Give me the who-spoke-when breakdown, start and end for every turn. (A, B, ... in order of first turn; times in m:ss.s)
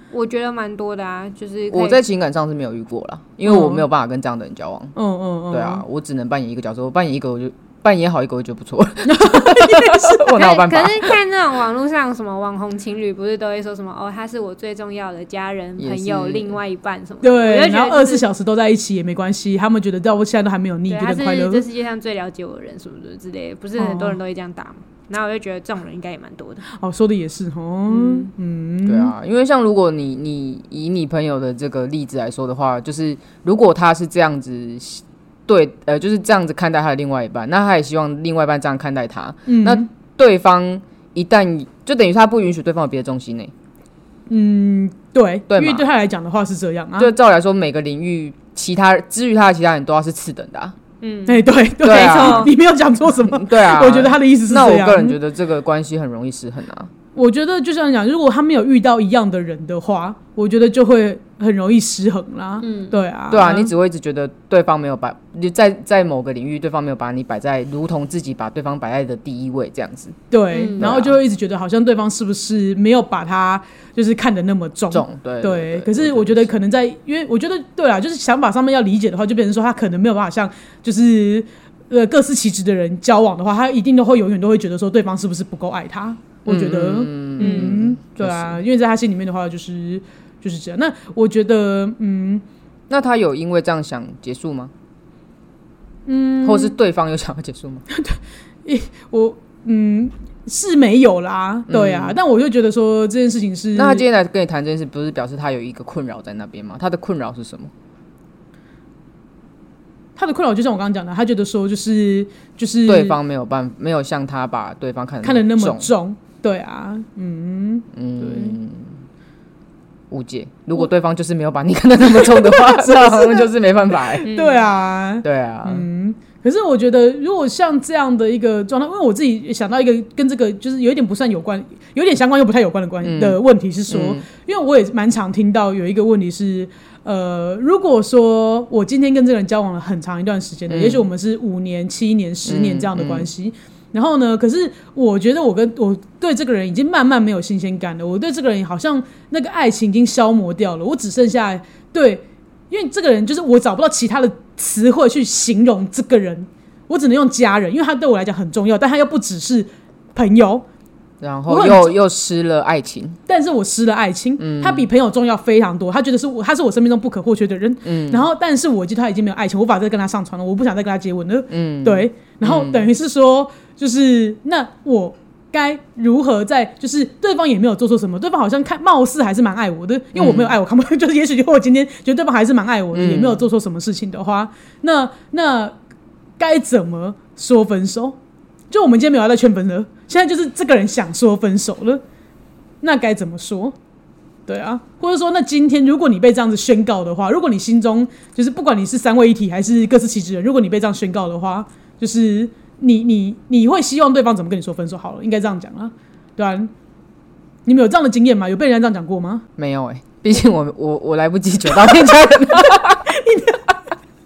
0:00.1-0:02.0 A
0:01.7-0:04.9 B
0:03.4-0:03.8 C
0:05.0-0:05.8 C
0:05.5-0:11.1 B
0:09.0-0:10.3 C
0:10.4-0:18.2 A
0:15.8-0:16.6 B
0:17.2-0:21.6 C
0:20.9-0:26.6 A
0:23.8-0:24.2 C
0:26.7-0:29.1 C
0:27.9-0:28.3 A
0:28.8-0:43.5 B
0:39.5-0:39.9 C
0:44.3-0:47.1 C
0:45.5-0:45.8 B
0:47.0-0:50.8 B
0:51.0-0:52.5 A
0:51.3-0:55.2 C
0:51.8-0:52.5 B
0:53.2-0:56.9 B
0:57.2-1:03.7 C
1:02.6-1:03.0 A
1:03.3-1:10.2 B
1:10.3-1:32.4 C
1:10.5-1:10.9 A
1:10.8-1:11.2 B
1:14.9-1:16.5 B
1:26.5-1:28.6 B
1:27.4-1:27.7 A
1:32.9-1:34.7 B
1:36.1-1:36.8 C
1:36.4-1:37.8 B
1:37.9-1:44.1 C
1:41.7-1:42.2 B
1:43.8-1:47.7 B
1:50.2-1:53.2 C
1:52.9-1:55.9 B
1:55.2-1:58.6 C
1:57.9-1:59.0 B
2:00.1-2:04.3 B
2:02.1-2:03.5 C
2:04.1-2:40.6 C
2:04.3-2:04.7 A
2:05.2-2:05.9 B
2:13.0-2:13.4 B
2:13.9-2:14.2 B
2:20.7-2:21.1 B
2:22.5-2:23.3 B
2:41.2-2:43.2 B
2:41.5-2:42.0 C
2:43.3-3:05.8 C
2:44.4-2:44.9 B
2:47.8-2:48.3 B
2:51.5-2:52.9 B
3:00.2-3:00.5 B
3:02.9-3:03.4 B
3:06.4-3:08.2 C
3:08.7-3:12.0 C
3:12.8-3:13.8 C
3:14.5-3:26.7 C
3:27.7-3:29.4 C
3:29.6-3:33.0 B
3:33.0-3:33.7 C